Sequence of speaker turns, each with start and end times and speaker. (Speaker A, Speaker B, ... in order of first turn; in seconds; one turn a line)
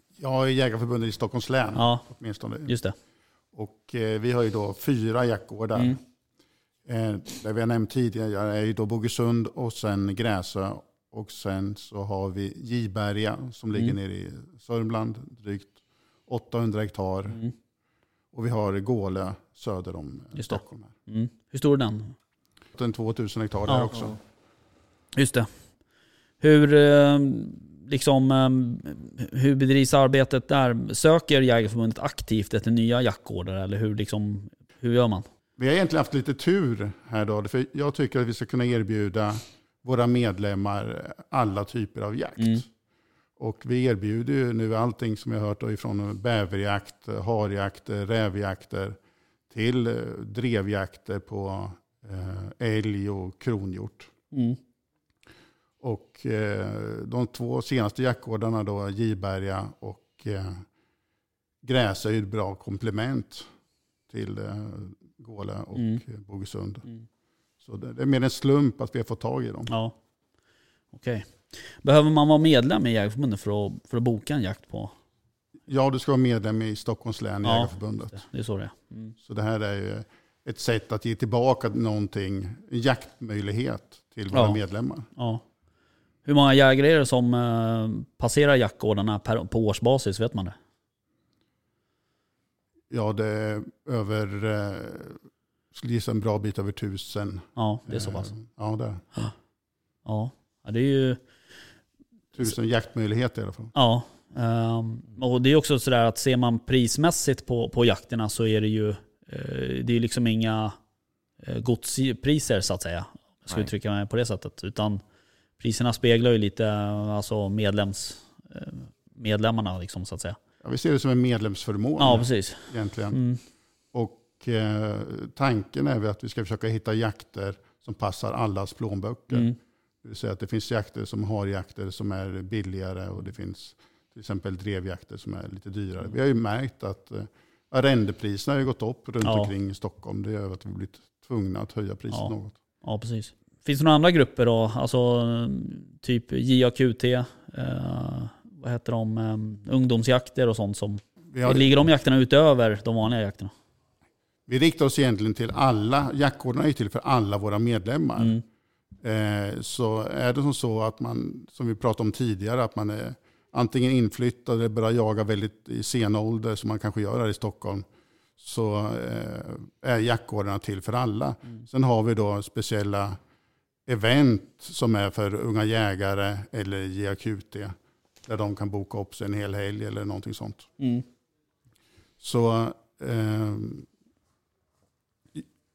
Speaker A: 0.2-2.7
Speaker B: 1.8-2.0
Speaker B: 2.6-2.9
Speaker A: 3.5-6.0
Speaker A: 6.8-17.4
Speaker A: 18.3-20.9
Speaker B: 20.4-22.1
Speaker A: 22.7-24.2
Speaker B: 23.7-24.0
Speaker B: 25.1-25.5
Speaker B: 26.4-35.3
Speaker A: 35.6-42.6
Speaker B: 42.4-42.6
Speaker A: 43.4-49.0
Speaker A: 49.5-54.1
Speaker B: 54.3-54.6
Speaker A: 55.8-60.6
Speaker A: 61.6-63.5
Speaker A: 64.1-66.8
Speaker B: 65.7-66.0
Speaker A: 67.6-69.7
Speaker B: 69.7-70.0
Speaker B: 70.9-74.9
Speaker A: 75.7-78.2
Speaker B: 77.4-79.1
Speaker A: 79.2-85.1
Speaker B: 84.3-84.6
Speaker B: 85.2-85.4
Speaker B: 86.2-90.5
Speaker A: 92.9-95.2
Speaker A: 95.7-99.0
Speaker B: 97.5-98.3
Speaker B: 100.0-101.2
Speaker A: 102.3-103.7
Speaker B: 103.7-110.8
Speaker B: 111.4-115.0
Speaker B: 115.6-120.4
Speaker A: 120.6-123.2
Speaker B: 122.0-123.4
Speaker A: 123.9-142.6
Speaker B: 129.3-129.6
Speaker B: 139.2-139.5
Speaker B: 142.1-153.5
Speaker A: 151.3-151.7
Speaker A: 154.5-158.4
Speaker B: 158.2-158.4
Speaker A: 159.0-167.8
Speaker A: 168.4-173.2
Speaker A: 173.8-180.7
Speaker B: 180.8-181.0
Speaker A: 182.2-183.9